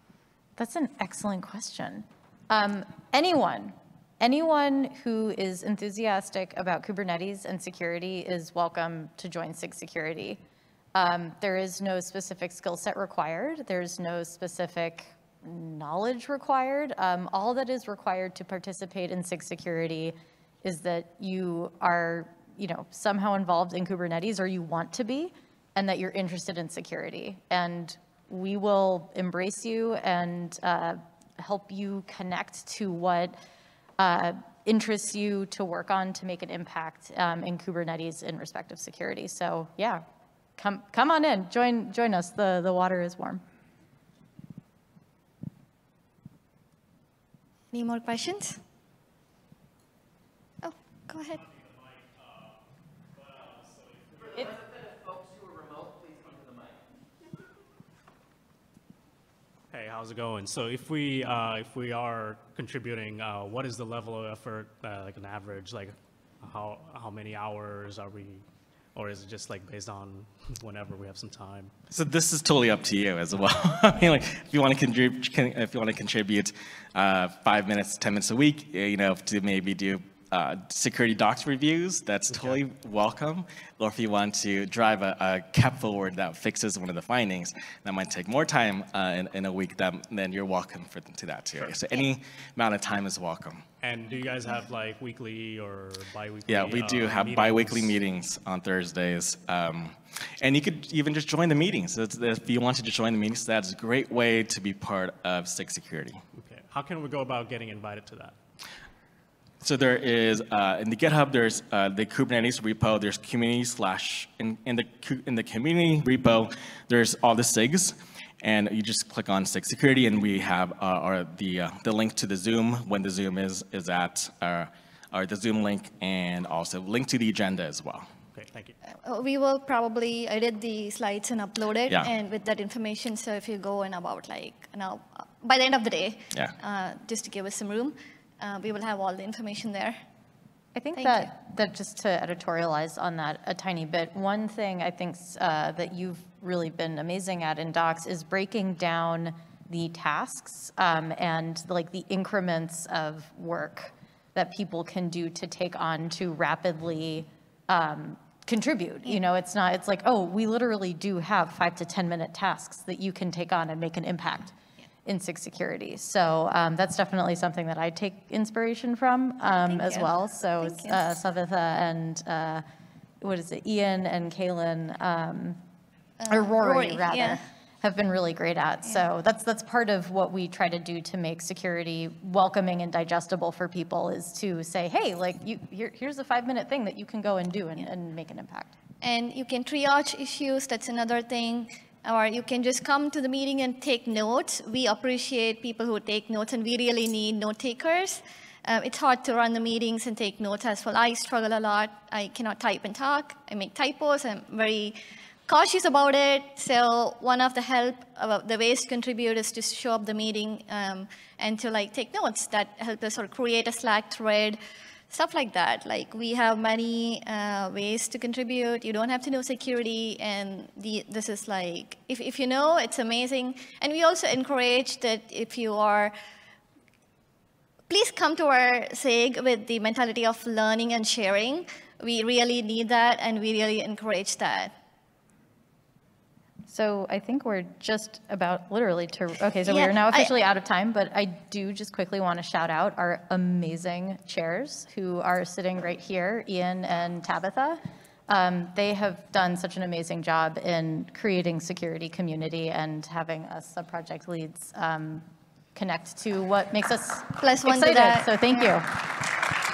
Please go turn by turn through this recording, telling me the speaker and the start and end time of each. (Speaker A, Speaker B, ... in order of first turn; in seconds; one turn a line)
Speaker A: 0.6-10.4
Speaker A: 10.9-33.4
Speaker A: 34.0-40.0
Speaker A: 40.6-43.4
Speaker B: 47.7-48.6
Speaker B: 50.6-51.4
Speaker C: 53.3-54.6
Speaker C: 59.7-71.7
Speaker D: 71.9-93.6
Speaker C: 93.8-98.0
Speaker D: 96.5-106.2
Speaker C: 106.3-108.3
Speaker D: 109.6-128.1
Speaker C: 128.3-128.7
Speaker B: 129.0-139.9
Speaker A: 140.8-164.5
Speaker B: 141.0-141.3
Speaker A: 165.1-172.6
Speaker B: 169.6-171.1
Speaker A: 173.2-175.6
Speaker B: 176.2-177.4
Speaker A: 176.3-188.7
Speaker B: 189.0-214.6
Speaker B: 215.1-226.1
Speaker B: 227.9-234.7
Speaker A: 236.7-258.9
Speaker B: 239.7-240.3
Speaker B: 257.4-258.8